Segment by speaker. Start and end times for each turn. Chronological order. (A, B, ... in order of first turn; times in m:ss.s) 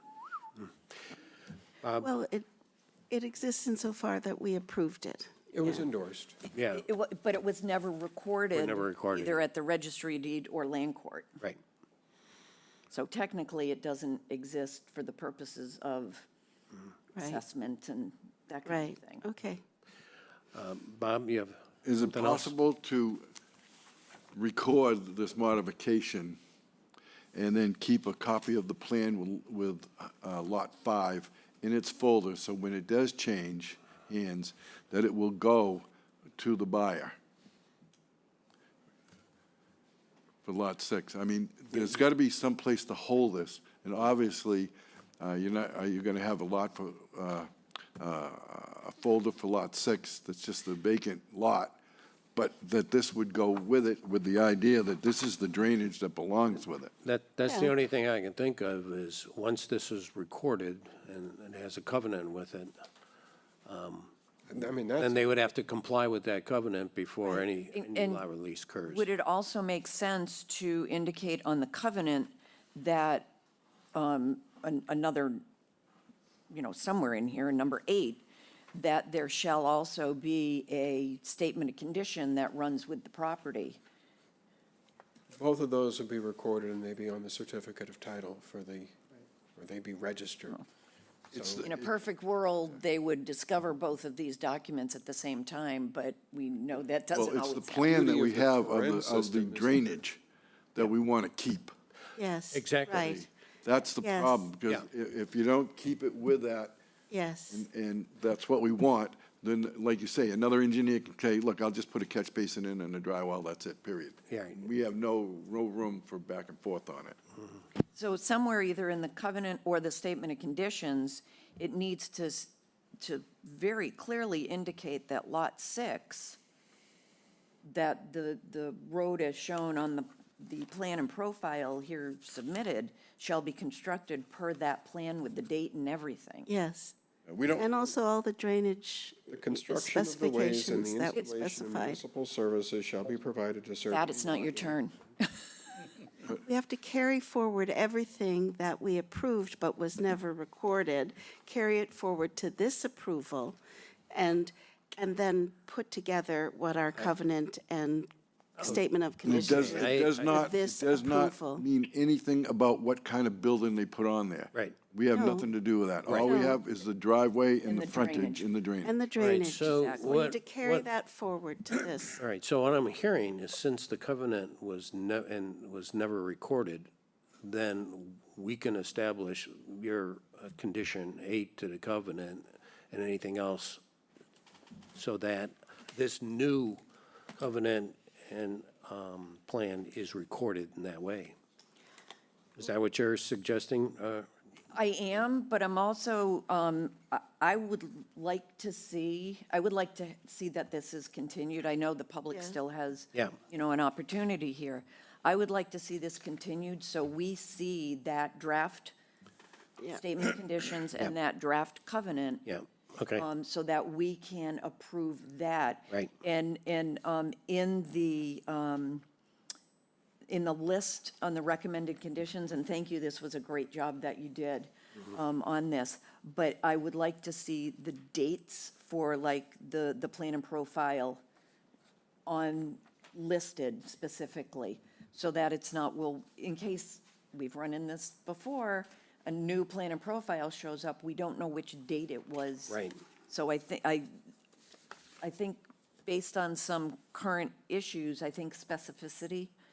0:02.0-0:02.5 A
0:03.1-0:05.4 A
0:05.5-0:06.4 B
0:06.5-0:06.8 C
0:06.7-0:11.4 D
0:08.5-0:09.4 C
0:12.9-0:16.3 D
0:17.2-0:17.4 A
0:17.2-0:19.2 D
0:18.7-0:19.6 A
0:20.5-0:22.5 C
0:21.8-0:23.2 E
0:24.3-0:26.4 E
0:27.3-0:35.9 E
0:36.4-0:37.2 E
0:40.4-0:51.8 E
0:52.4-0:56.9 E
0:57.0-1:02.7 C
0:57.5-0:57.7 A
1:03.7-1:04.1 C
1:04.5-1:05.3 B
1:05.0-1:09.1 C
1:07.3-1:08.2 D
1:08.9-1:13.4 D
1:14.0-1:15.4 D
1:16.5-1:23.8 D
1:25.3-1:29.0 B
1:29.6-1:30.6 B
1:31.3-1:31.7 B
1:31.3-1:31.9 E
1:31.6-1:38.1 D
1:37.1-1:40.2 E
1:37.9-1:40.0 B
1:40.7-1:41.7 E
1:42.2-1:43.3 A
1:42.5-1:43.1 C
1:42.9-1:46.8 E
1:44.0-1:44.4 A
1:47.1-1:47.6 A
1:47.5-1:57.2 E
1:54.3-1:54.6 C
1:57.9-2:06.4 D
2:07.6-2:16.5 D
2:16.5-2:17.0 A
2:17.3-2:17.7 E
2:17.5-2:22.0 A
2:19.3-2:24.8 B
2:23.9-2:25.5 D
2:26.3-2:33.6 A
2:34.1-2:41.6 A
2:38.6-2:40.5 C
2:39.2-2:48.9 E
2:45.1-2:45.5 A
2:46.1-2:46.5 C
2:46.1-2:46.6 A
2:47.6-2:48.5 D
2:48.8-2:52.2 A
2:49.2-2:50.9 C
2:49.3-2:50.4 D
2:52.2-2:56.9 C
2:57.4-3:03.8 C
3:05.0-3:06.8 C
3:07.4-3:11.4 C
3:12.6-3:14.3 C
3:14.7-3:28.9 D
3:22.3-3:22.6 A
3:29.9-3:32.5 D
3:32.5-3:33.3 C
3:33.1-3:39.0 D
3:40.3-3:51.2 D
3:52.3-4:04.1 D
4:02.7-4:03.0 C
4:05.2-4:09.5 D